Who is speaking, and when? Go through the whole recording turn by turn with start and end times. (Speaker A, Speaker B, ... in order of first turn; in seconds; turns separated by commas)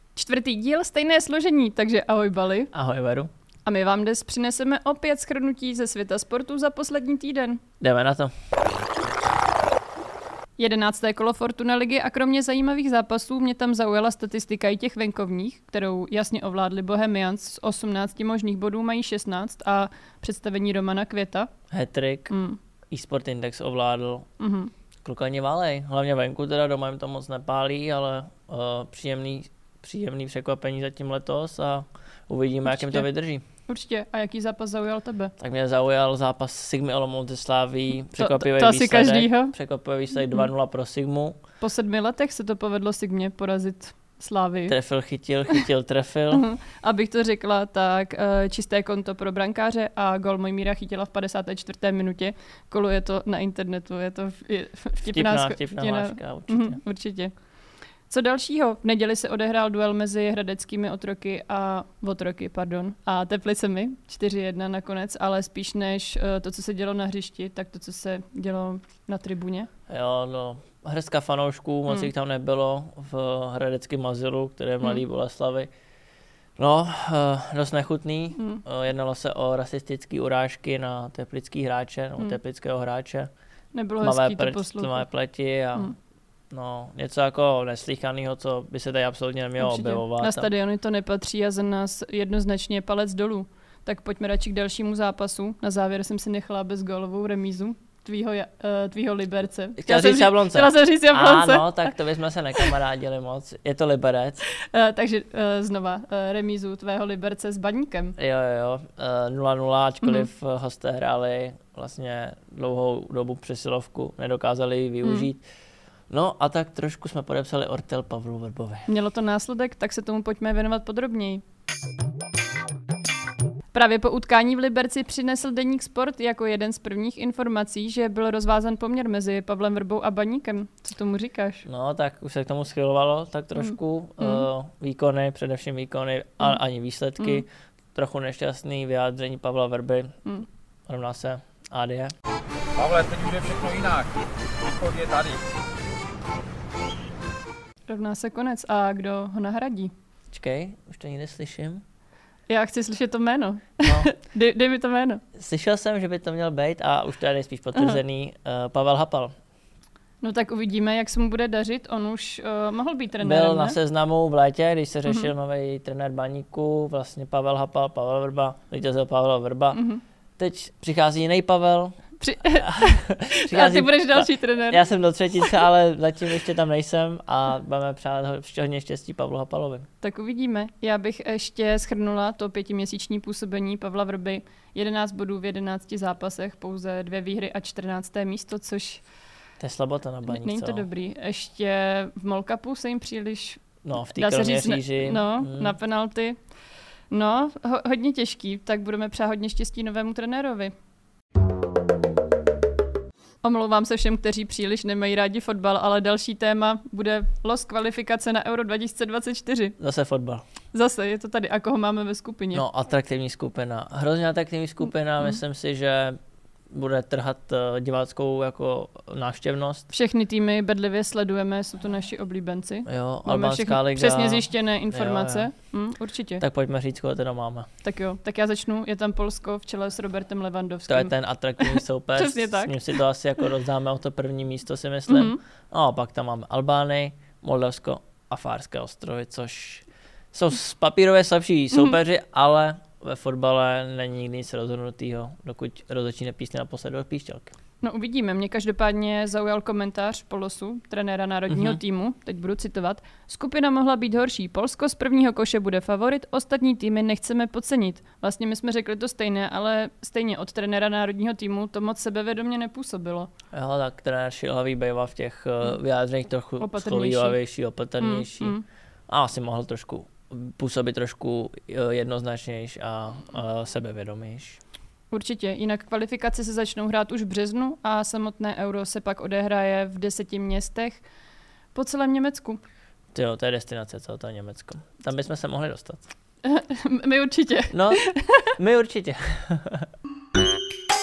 Speaker A: 0.1-2.7, Speaker B: 2.7-3.3, Speaker A: 3.6-7.6, Speaker B: 7.8-8.3, Speaker A: 10.6-21.5, Speaker B: 21.7-22.3, Speaker A: 22.3-22.6, Speaker B: 22.9-24.3, Speaker A: 24.4-24.7, Speaker B: 25.0-33.4, Speaker A: 32.7-33.0, Speaker A: 33.7-35.3, Speaker B: 35.4-41.4, Speaker A: 38.2-39.5, Speaker A: 41.6-44.7, Speaker B: 44.7-46.4, Speaker A: 46.3-57.3, Speaker B: 55.0-56.8, Speaker A: 58.1-69.7, Speaker B: 69.9-75.7, Speaker B: 76.6-83.3, Speaker A: 78.4-78.6, Speaker A: 83.7-85.1, Speaker B: 84.0-85.9, Speaker B: 86.5-90.5, Speaker A: 89.6-101.9, Speaker B: 99.8-104.4, Speaker A: 104.6-108.2, Speaker B: 108.2-115.4, Speaker A: 110.0-110.3, Speaker A: 115.0-115.3, Speaker B: 116.1-118.9, Speaker A: 118.9-121.4, Speaker A: 123.7-131.7, Speaker B: 131.7-140.2, Speaker A: 133.6-134.4, Speaker B: 140.9-142.1, Speaker C: 142.8-144.1, Speaker C: 144.8-145.4, Speaker A: 147.9-149.9, Speaker B: 150.3-151.8, Speaker A: 152.5-155.2, Speaker B: 153.8-154.1, Speaker B: 155.3-159.3, Speaker A: 160.2-163.8, Speaker B: 163.2-169.8, Speaker A: 169.7-170.0, Speaker B: 170.4-172.0, Speaker A: 172.2-174.8, Speaker B: 172.6-179.9, Speaker A: 180.0-189.0, Speaker B: 189.6-190.9, Speaker A: 190.3-196.4, Speaker B: 193.8-195.8, Speaker A: 197.1-200.7, Speaker A: 203.4-209.8, Speaker B: 209.8-210.4, Speaker A: 210.7-212.6, Speaker B: 212.5-216.2, Speaker B: 216.7-219.9, Speaker A: 219.9-226.4, Speaker B: 222.8-225.5, Speaker B: 226.4-227.7, Speaker A: 227.8-232.9, Speaker B: 230.9-247.5, Speaker A: 235.1-235.4, Speaker A: 241.7-242.0, Speaker A: 247.8-263.3, Speaker B: 251.5-251.8, Speaker B: 263.5-268.6, Speaker A: 266.6-267.4, Speaker A: 268.0-268.6, Speaker B: 269.1-274.6, Speaker A: 275.1-281.0, Speaker A: 281.7-282.6, Speaker B: 283.1-286.0, Speaker A: 286.4-288.5, Speaker B: 287.7-288.0, Speaker B: 288.6-289.9